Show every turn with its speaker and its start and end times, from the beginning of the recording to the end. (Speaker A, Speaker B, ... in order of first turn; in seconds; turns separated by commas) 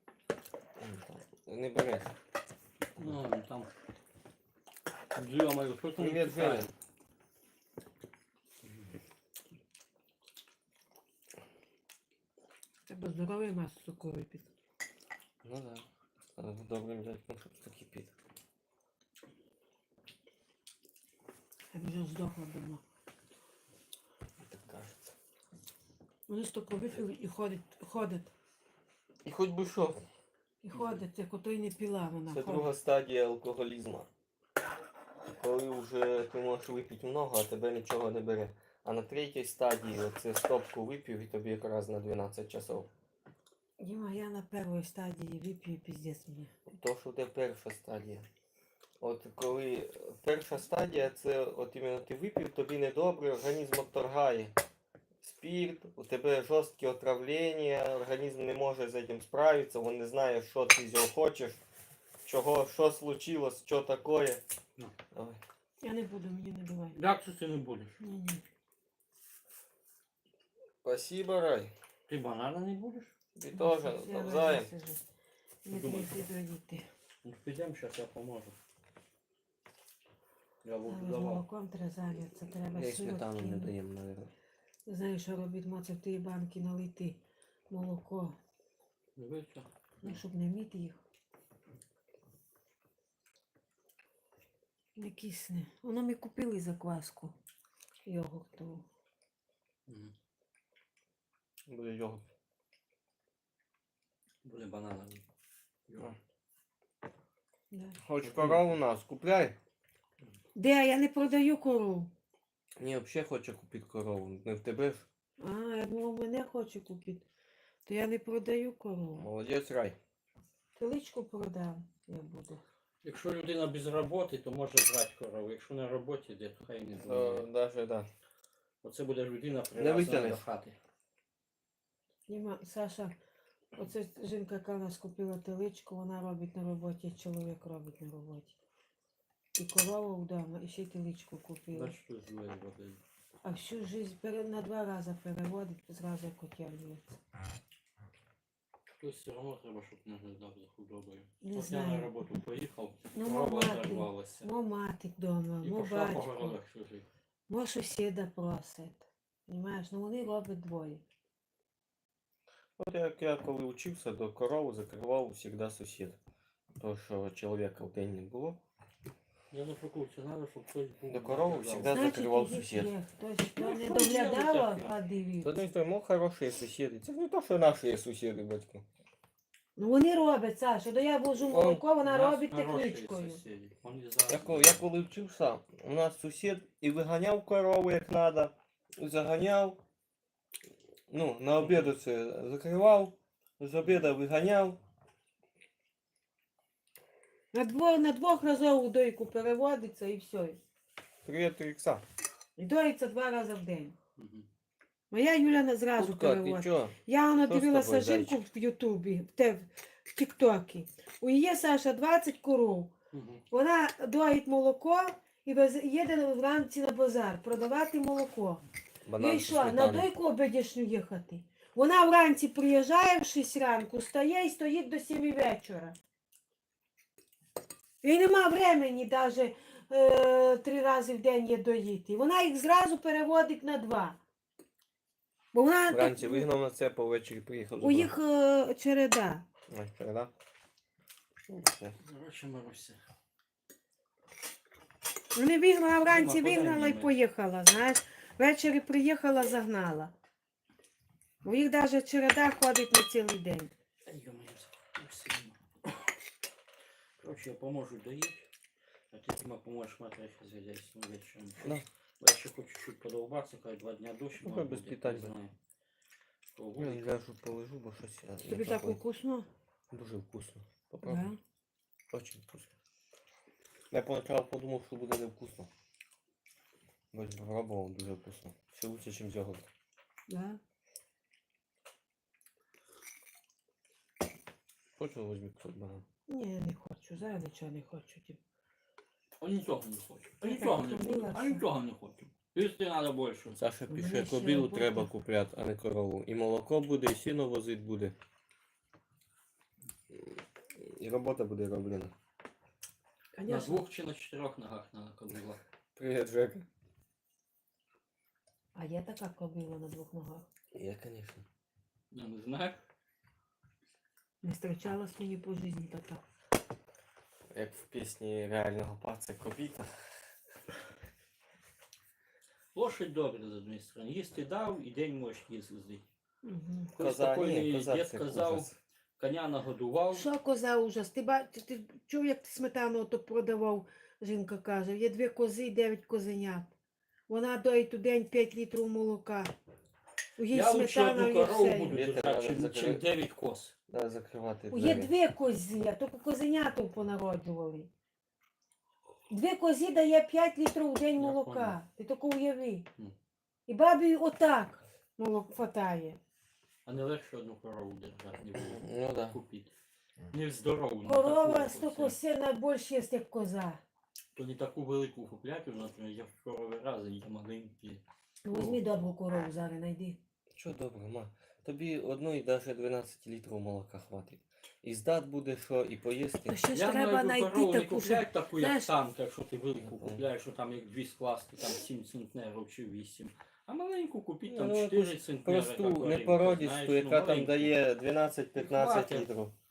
Speaker A: 0.8-2.1, Speaker B: 3.0-3.7, Speaker B: 5.2-6.7, Speaker A: 6.0-6.7, Speaker B: 8.6-8.9, Speaker C: 12.9-14.5, Speaker A: 15.4-15.9, Speaker A: 16.4-18.1, Speaker C: 21.7-22.8, Speaker A: 24.4-25.1, Speaker C: 26.3-28.3, Speaker A: 29.2-30.0, Speaker C: 30.6-32.7, Speaker A: 32.3-34.1, Speaker A: 35.4-42.9, Speaker C: 43.8-46.5, Speaker A: 46.7-48.3, Speaker A: 49.0-54.5, Speaker A: 55.2-61.6, Speaker A: 62.2-64.4, Speaker A: 65.1-65.4, Speaker C: 65.8-67.0, Speaker B: 66.9-68.0, Speaker C: 68.0-68.4, Speaker A: 70.8-71.7, Speaker B: 72.1-73.1, Speaker A: 73.4-74.7, Speaker C: 73.5-75.0, Speaker C: 75.6-76.9, Speaker B: 75.7-76.3, Speaker B: 77.2-78.5, Speaker B: 80.6-81.4, Speaker C: 80.9-83.8, Speaker A: 82.7-84.3, Speaker C: 84.9-88.4, Speaker B: 89.2-90.2, Speaker C: 90.0-91.0, Speaker C: 95.0-97.3, Speaker C: 98.1-98.8, Speaker B: 99.9-100.1, Speaker A: 101.7-102.3, Speaker B: 104.4-105.2, Speaker B: 105.9-106.2, Speaker C: 107.7-108.0, Speaker A: 108.0-109.6, Speaker B: 108.2-108.7, Speaker C: 110.6-112.1, Speaker A: 112.8-115.1, Speaker C: 115.4-117.3, Speaker C: 117.9-119.3, Speaker A: 119.2-120.0, Speaker C: 120.8-122.6, Speaker B: 123.0-127.5, Speaker A: 127.0-128.1, Speaker B: 128.8-130.8, Speaker A: 129.7-130.4, Speaker C: 132.3-133.2, Speaker C: 133.7-138.6, Speaker C: 139.6-142.0, Speaker B: 141.7-143.0, Speaker C: 143.4-147.2, Speaker B: 149.0-154.5, Speaker C: 151.4-152.1, Speaker C: 153.1-156.6, Speaker B: 155.6-157.1, Speaker C: 157.5-161.0, Speaker A: 162.8-166.2, Speaker A: 166.8-168.6, Speaker B: 169.5-172.0, Speaker A: 171.1-172.9, Speaker C: 171.8-175.6, Speaker B: 173.6-174.9, Speaker A: 175.4-178.8, Speaker C: 179.8-183.4, Speaker A: 181.4-181.8, Speaker B: 182.0-184.8, Speaker A: 184.3-189.8, Speaker A: 191.1-194.8, Speaker B: 191.6-191.9, Speaker C: 197.5-200.6, Speaker A: 201.2-202.0, Speaker C: 202.6-203.9, Speaker B: 204.2-204.5, Speaker C: 205.1-212.9, Speaker A: 206.0-208.4, Speaker B: 213.1-213.4, Speaker C: 213.5-218.6, Speaker A: 219.1-220.1, Speaker C: 219.2-226.0, Speaker C: 228.0-234.2, Speaker C: 235.5-236.5, Speaker A: 235.9-238.1, Speaker C: 237.8-239.5, Speaker A: 239.7-240.3, Speaker A: 241.5-242.0, Speaker B: 242.0-243.0, Speaker C: 245.3-250.1, Speaker B: 246.1-247.1, Speaker C: 251.4-253.7, Speaker B: 254.1-256.1, Speaker B: 257.2-258.5, Speaker B: 259.1-265.5, Speaker A: 261.6-261.9, Speaker A: 264.4-265.4, Speaker B: 266.6-267.1, Speaker A: 266.8-269.0, Speaker C: 268.4-269.5, Speaker A: 269.9-271.3, Speaker C: 271.0-271.4, Speaker A: 272.1-272.7, Speaker A: 273.9-275.7, Speaker A: 277.1-279.7, Speaker C: 280.3-280.6, Speaker A: 285.0-286.1, Speaker C: 286.3-288.4, Speaker B: 289.4-294.0, Speaker C: 290.4-291.6, Speaker A: 293.6-298.1, Speaker C: 293.9-295.1, Speaker A: 300.1-302.1, Speaker C: 303.4-303.8, Speaker B: 303.5-305.6, Speaker A: 306.0-306.6, Speaker C: 308.7-310.5, Speaker A: 310.7-311.4, Speaker B: 312.1-312.8, Speaker C: 314.4-316.2, Speaker A: 317.5-319.9, Speaker B: 322.7-326.0, Speaker C: 326.4-326.9, Speaker B: 326.9-330.3, Speaker A: 327.0-328.8, Speaker C: 330.1-336.7, Speaker C: 337.3-339.5, Speaker C: 340.4-342.0, Speaker B: 340.5-343.7, Speaker A: 341.9-343.0, Speaker A: 343.9-345.1, Speaker C: 344.7-347.9, Speaker C: 349.3-352.9, Speaker B: 351.2-351.8, Speaker C: 353.7-356.2, Speaker B: 356.9-359.7, Speaker A: 358.6-359.4, Speaker B: 360.3-362.2, Speaker C: 361.0-363.8, Speaker B: 364.4-368.0, Speaker C: 368.4-370.2, Speaker A: 370.6-376.6, Speaker C: 376.5-378.9, Speaker B: 376.7-387.7, Speaker A: 379.8-380.2, Speaker A: 384.5-389.5, Speaker B: 388.6-389.3